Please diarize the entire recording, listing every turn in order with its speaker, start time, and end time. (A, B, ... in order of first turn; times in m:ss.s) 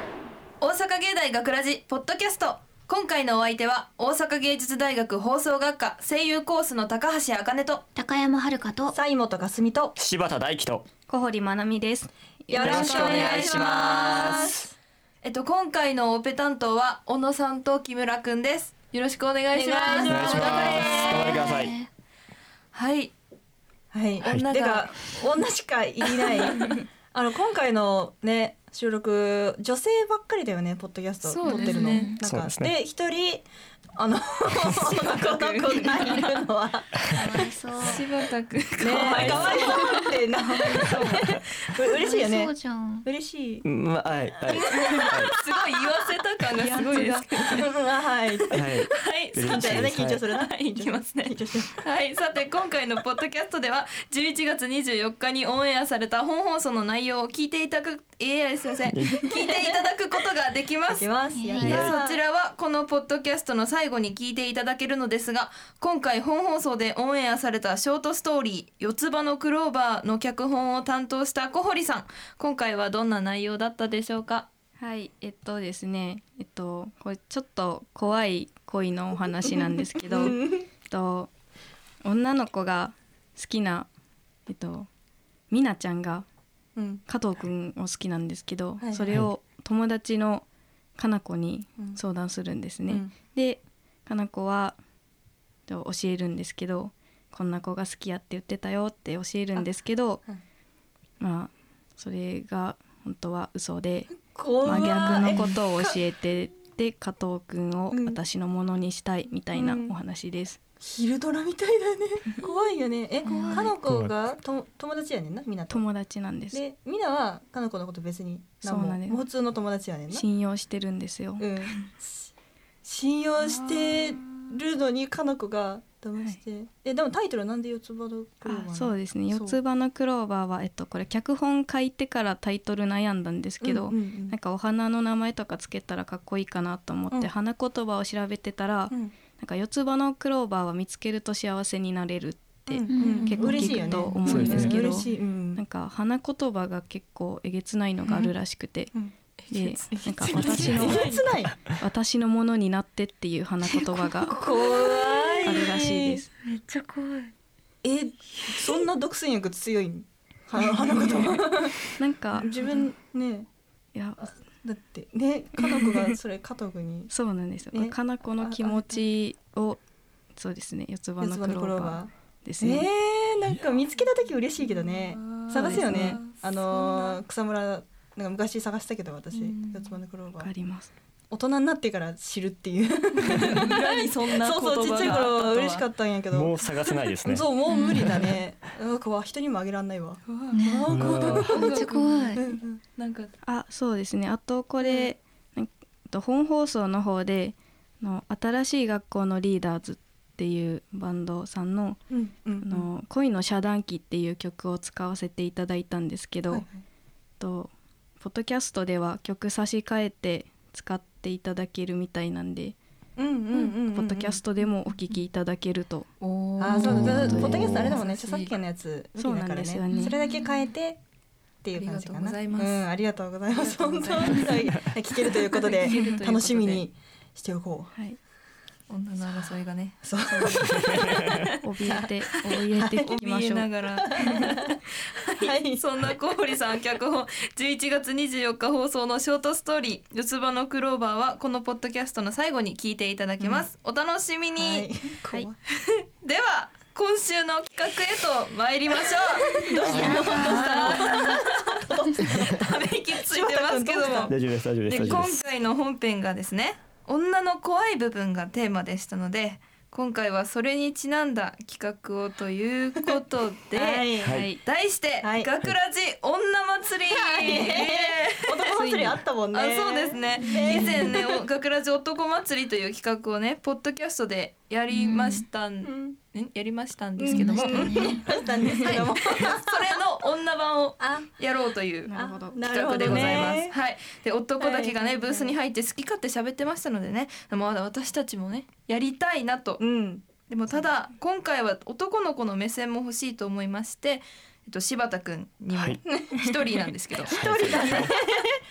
0:00.6-0:07.8 A
0:08.0-0:09.0 B
0:08.9-0:10.0 C
0:10.0-0:10.9 D
0:11.1-0:12.8 E
0:12.5-0:14.7 C
0:12.5-0:14.5 A
0:12.6-0:14.7 D
0:15.2-0:21.4 A
0:19.5-0:21.3 C
0:19.9-0:21.9 B
0:20.1-0:21.8 D
0:22.7-0:23.1 A
0:23.9-0:33.5 C
0:24.2-0:25.2 A
0:26.0-0:26.8 A
0:31.2-0:32.2 A
0:31.5-0:32.2 B
0:32.2-0:32.7 D
0:34.0-0:37.5 C
0:34.7-0:36.3 A
0:37.1-0:38.0 B
0:37.8-0:41.0 A
0:38.8-0:43.6 C
0:39.1-0:39.7 D
0:40.9-0:41.2 E
0:41.9-0:43.1 B
0:43.6-0:45.3 D
0:44.5-0:45.8 C
0:44.7-0:47.7 A
0:46.6-0:47.3 E
0:46.8-0:48.8 C
0:48.5-0:50.2 D
0:48.9-1:01.1 A
0:49.4-0:51.7 C
0:58.9-0:59.3 D
0:59.3-0:59.8 C
1:01.0-1:02.2 C
1:01.4-1:01.9 B
1:01.6-1:14.5 A
1:01.6-1:01.9 D
1:14.8-1:21.3 E
1:20.0-1:20.7 C
1:22.0-1:23.9 E
1:24.5-1:24.9 E
1:25.5-1:26.2 E
1:26.8-1:27.0 C
1:27.1-1:30.4 E
1:28.8-1:29.2 C
1:31.0-1:34.8 E
1:35.7-1:40.2 E
1:41.2-1:44.1 E
1:44.3-1:46.0 C
1:44.6-1:50.6 E
1:47.9-1:48.2 C
1:49.5-1:50.0 C
1:50.8-1:55.8 C
1:53.2-1:53.8 B
1:53.8-1:54.1 D
1:55.7-1:56.6 E
1:56.5-2:00.2 C
1:58.6-1:59.2 E
2:00.1-2:01.5 E
2:01.4-2:02.3 C
2:02.8-2:09.6 C
2:03.6-2:04.1 E
2:08.4-2:28.9 E
2:13.6-2:14.4 C
2:22.7-2:25.6 C
2:22.9-2:23.3 B
2:23.0-2:24.6 A
2:24.2-2:24.8 D
2:29.4-2:31.2 A
2:29.5-2:31.1 E
2:29.9-2:31.6 C
2:30.5-2:30.9 D
2:31.8-2:34.4 E
2:33.7-2:34.7 B
2:34.3-2:36.2 C
2:34.5-2:35.5 A
2:35.4-2:36.3 E
2:36.5-2:37.3 B
2:37.8-2:43.5 C
2:41.1-2:41.4 A
2:42.0-2:42.5 E
2:44.0-2:44.3 E
2:44.6-2:47.1 C
2:45.6-2:46.1 E
2:47.1-2:49.8 E
2:47.7-2:49.0 C
2:50.4-2:52.9 E
2:51.2-3:00.5 C
2:54.7-2:57.2 A
2:59.3-3:00.0 A
3:00.4-3:00.9 E
3:01.3-3:06.6 C
3:03.2-3:05.9 A
3:06.3-3:07.5 D
3:07.2-3:12.8 C
3:07.7-3:08.2 B
3:10.5-3:12.5 B
3:10.9-3:11.5 D
3:11.1-3:12.4 A
3:13.0-3:13.3 A
3:13.5-3:22.0 E
3:14.8-3:15.1 C
3:22.1-3:22.9 C
3:22.6-3:26.6 E
3:26.5-3:26.8 C
3:27.4-3:32.8 E
3:33.2-3:34.4 C
3:33.5-3:36.1 E
3:36.2-3:38.5 A
3:36.6-3:41.0 C
3:36.9-3:38.0 D
3:37.3-3:37.7 E
3:39.2-3:40.1 E
3:39.9-3:40.5 A
3:41.6-3:47.9 C
3:41.8-3:42.8 A
3:43.5-3:46.9 A
3:45.9-3:46.2 E
3:48.9-3:50.0 A
3:49.2-3:49.5 C
3:50.0-3:52.1 C
3:50.3-3:50.8 E
3:50.8-3:51.4 D
3:51.6-3:53.7 E
3:52.4-3:54.8 A
3:52.8-3:53.2 C
3:54.0-3:55.8 C
3:55.5-4:04.9 A
4:04.6-4:06.0 C
4:06.2-4:14.4 A
4:09.1-4:14.4 C
4:09.9-4:10.3 D
4:09.9-4:11.0 B
4:14.3-4:15.4 D
4:14.9-4:28.9 A
4:15.0-4:15.4 C
4:23.7-4:24.4 C
4:24.2-4:24.5 D
4:24.3-4:24.6 E
4:25.2-4:25.5 C
4:27.1-4:31.4 C
4:28.8-4:29.2 E
4:29.5-4:38.2 A
4:34.9-4:35.4 B
4:35.8-4:36.2 C
4:37.2-4:40.0 C
4:37.3-4:38.3 B
4:38.7-4:49.8 A
4:41.0-4:41.3 C
4:42.1-4:43.6 E
4:42.2-4:43.8 C
4:43.1-4:43.4 D
4:44.6-4:45.5 C
4:49.8-4:50.3 C
4:50.5-4:58.1 A
4:55.7-4:56.0 D
4:56.1-4:58.6 C
4:57.3-4:58.2 D